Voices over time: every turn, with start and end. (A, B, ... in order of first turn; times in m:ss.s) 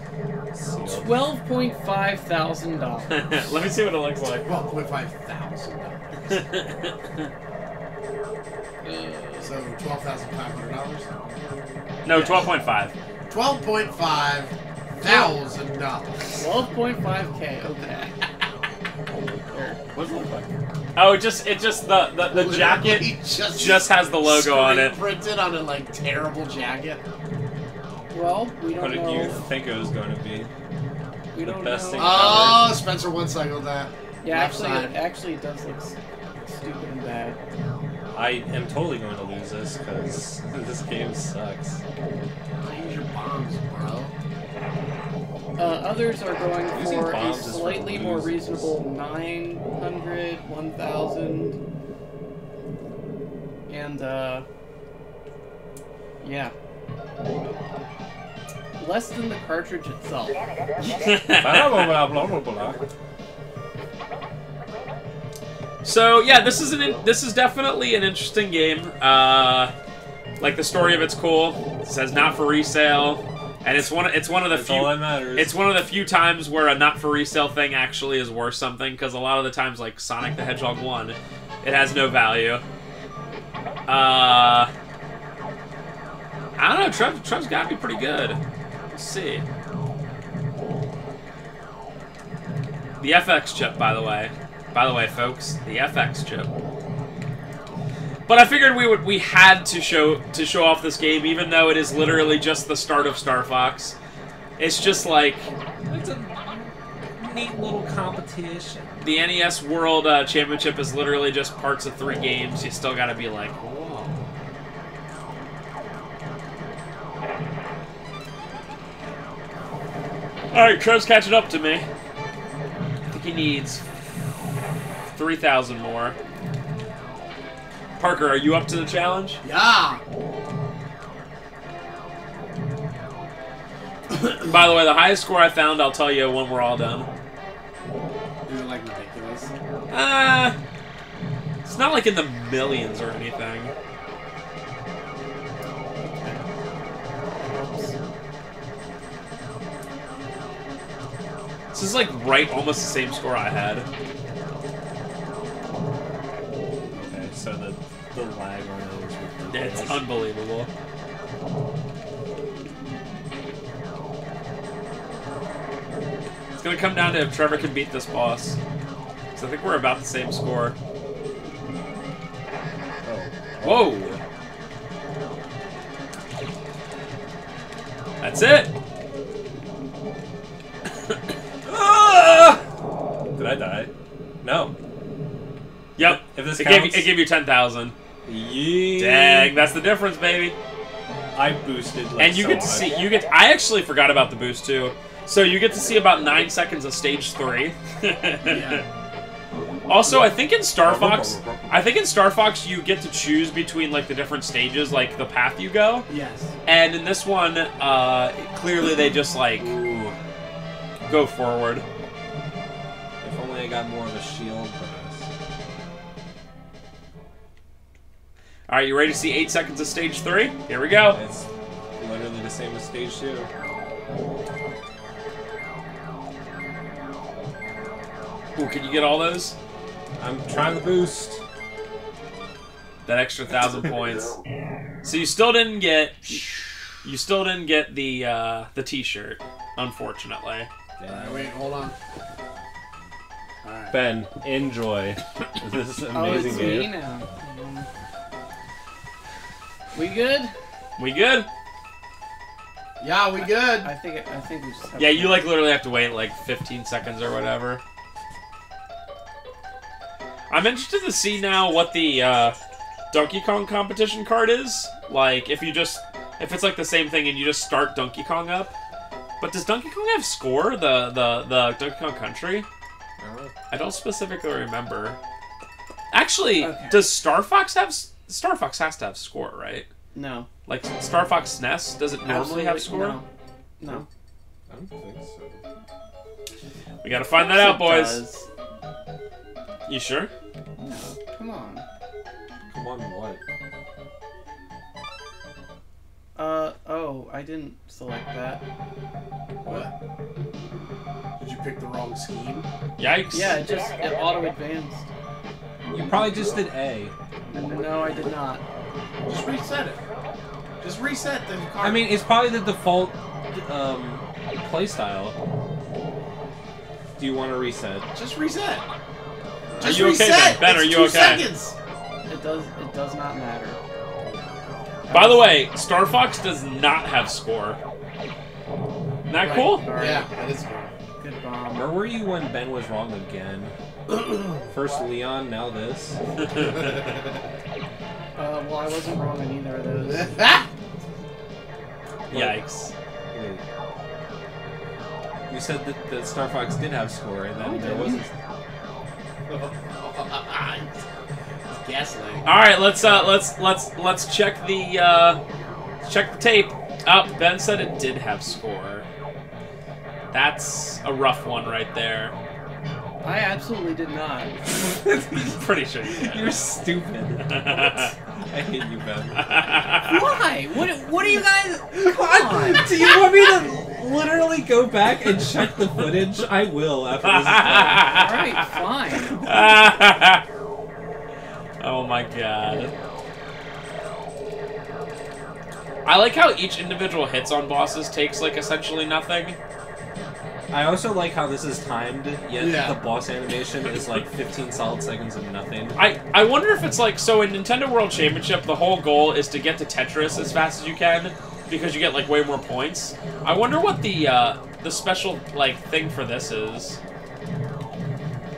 0:00.5-0:01.3 A
0:00.9-0:03.5 B
0:03.1-0:04.5 C
0:04.4-0:06.5 D
0:06.3-0:06.9 C
0:08.8-0:09.6 B
0:09.4-0:11.1 D
0:12.0-0:12.9 C
0:12.2-0:12.5 B
0:13.3-0:16.2 D
0:15.0-0:15.4 B
0:16.4-0:18.1 B
0:19.5-0:19.8 B
0:20.0-0:20.5 A
0:21.0-0:25.0 C
0:22.3-0:27.0 D
0:28.1-0:29.4 B
0:28.8-0:30.5 A
0:31.3-0:32.5 B
0:31.4-0:32.8 A
0:32.0-0:35.0 D
0:34.2-0:37.4 B
0:38.1-0:41.8 A
0:42.6-0:44.2 D
0:45.6-0:51.6 B
0:46.7-0:48.8 A
0:53.7-0:54.5 B
0:56.2-0:56.5 B
0:58.8-1:00.4 B
1:00.8-1:02.0 C
1:01.4-1:02.8 A
1:05.8-1:09.7 C
1:10.4-1:22.6 C
1:14.5-1:15.5 A
1:23.9-1:24.7 C
1:26.6-1:29.4 C
1:33.0-1:36.5 C
1:38.3-1:44.0 C
1:44.6-1:45.5 C
1:45.9-1:49.0 A
1:49.0-1:53.5 C
1:53.6-1:54.1 D
2:00.5-2:01.9 C
2:03.1-2:03.8 C
2:05.1-2:06.2 C
2:08.0-2:09.4 C
2:09.4-2:10.0 D
2:14.1-2:14.6 D
2:14.4-2:17.1 C
2:18.5-2:19.5 D
2:19.9-2:20.6 C
2:21.6-2:23.7 C
2:27.5-2:27.8 B
2:31.7-2:33.9 C
2:36.9-2:40.0 A
2:39.5-2:40.7 C
2:46.6-2:48.6 C
2:49.3-2:50.8 C
2:53.0-2:54.2 A
2:53.6-2:54.2 C
2:58.2-2:58.7 C
3:01.6-3:02.6 A
3:03.4-3:03.9 A
3:04.4-3:04.7 A
3:06.0-3:08.0 C
3:06.0-3:07.1 A
3:08.3-3:09.5 A
3:09.0-3:10.6 C
3:11.4-3:12.9 A
3:12.2-3:18.8 C
3:18.4-3:18.8 D
3:19.9-3:26.1 C
3:20.8-3:21.9 A
3:26.1-3:26.5 D
3:26.7-3:29.7 C
3:29.6-3:30.2 A
3:31.1-3:31.8 C
3:33.2-3:35.3 A
3:38.7-3:41.2 C
3:41.1-3:43.5 A
3:48.6-3:49.6 C
3:50.2-3:51.4 A
3:53.1-3:54.4 C
3:55.0-3:56.4 C
3:57.0-4:00.7 C
4:01.0-4:01.6 A
4:01.1-4:02.0 D
4:03.6-4:04.0 D
4:03.9-4:06.9 A
4:06.1-4:07.9 B
4:09.9-4:10.5 B
4:11.0-4:11.5 C
4:13.0-4:13.9 D
4:13.4-4:15.5 B
4:15.0-4:17.8 C
4:20.5-4:22.6 C
4:23.1-4:28.7 C
4:29.4-4:32.7 C
4:33.2-4:33.5 A
4:33.7-4:35.2 C
4:36.1-4:39.9 C
4:36.6-4:37.1 B
4:40.1-4:40.5 B
4:40.7-4:43.2 C
4:42.2-4:43.3 B
4:43.8-4:44.1 B
4:44.7-4:45.6 A
4:47.0-4:48.2 C
4:47.4-4:48.5 B
4:49.9-4:50.3 C
4:50.8-4:51.8 B
4:52.7-4:53.4 A
4:56.4-4:58.6 B
4:59.6-4:59.9 D
5:01.4-5:02.7 D
5:03.0-5:03.6 C
5:03.3-5:05.1 B
5:05.9-5:07.1 A
5:07.5-5:08.6 B
5:09.3-5:10.0 D
5:10.8-5:12.1 D
5:11.8-5:15.4 A
5:17.2-5:18.1 A
5:18.2-5:18.8 D
5:19.7-5:21.8 D
5:19.8-5:21.5 C
5:22.3-5:23.8 B
5:25.1-5:25.4 B
5:25.1-5:27.8 C
5:29.3-5:29.9 C
5:29.4-5:30.3 B
5:29.9-5:30.9 D
5:31.2-5:32.0 B
5:31.7-5:33.8 A
5:34.7-5:36.2 A
5:38.4-5:40.6 B
5:40.1-5:40.7 D
5:42.3-5:42.6 A
5:42.3-5:42.9 C
5:43.3-5:43.6 A
5:45.5-5:48.3 A
5:47.6-5:48.2 B
5:49.5-5:50.9 D
5:51.7-5:52.5 D
5:52.4-5:55.4 C
5:56.0-5:59.1 C
6:00.3-6:02.3 C
6:03.2-6:04.6 B
6:05.0-6:06.6 C
6:05.1-6:05.5 A
6:06.1-6:09.5 A
6:07.4-6:08.1 C
6:09.4-6:10.2 C
6:10.0-6:13.2 B
6:11.2-6:18.1 A
6:17.2-6:18.8 C
6:18.0-6:19.4 B
6:19.4-6:20.4 C
6:21.8-6:22.9 C
6:26.0-6:29.6 C
6:30.7-6:36.0 A
6:32.6-6:33.0 D
6:36.0-6:47.0 C